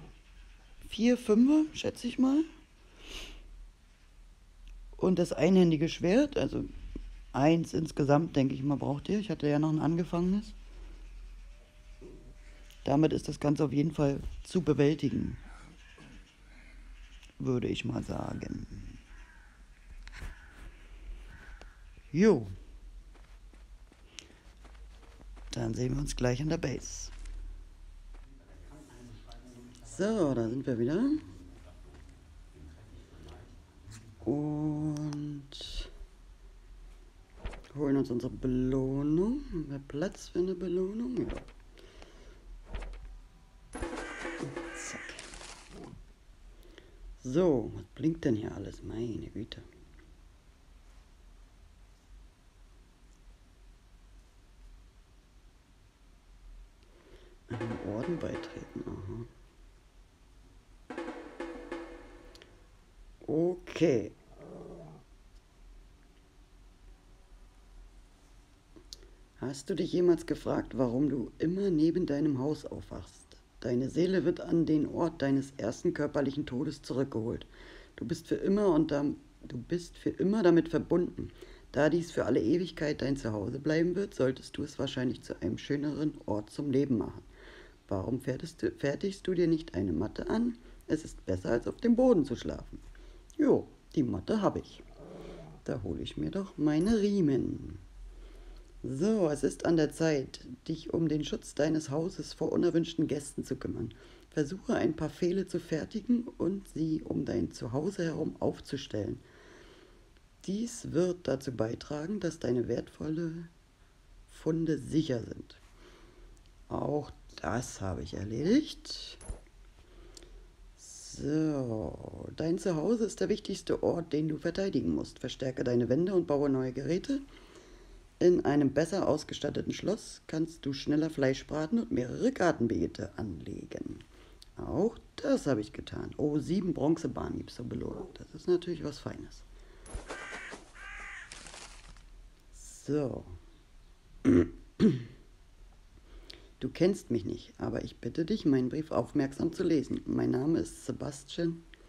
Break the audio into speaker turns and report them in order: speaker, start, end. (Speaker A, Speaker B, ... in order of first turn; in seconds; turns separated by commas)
Speaker A: 0.8-2.5, Speaker A: 5.0-6.7, Speaker A: 7.3-10.6, Speaker A: 12.8-15.4, Speaker A: 17.4-19.0, Speaker A: 22.1-22.5, Speaker A: 25.5-27.1, Speaker A: 29.8-31.3, Speaker A: 34.2-35.9, Speaker A: 37.7-41.5, Speaker A: 44.4-45.3, Speaker A: 47.2-49.6, Speaker A: 57.5-59.3, Speaker A: 63.2-64.2, Speaker A: 69.4-87.3, Speaker A: 87.9-92.8, Speaker A: 93.4-94.8, Speaker A: 95.7-97.8, Speaker A: 98.8-109.2, Speaker A: 110.4-113.5, Speaker A: 114.3-115.6, Speaker A: 116.7-119.2, Speaker A: 120.8-127.2, Speaker A: 128.2-134.1, Speaker A: 134.6-139.5, Speaker A: 142.5-143.4, Speaker A: 144.2-145.1, Speaker A: 146.6-151.6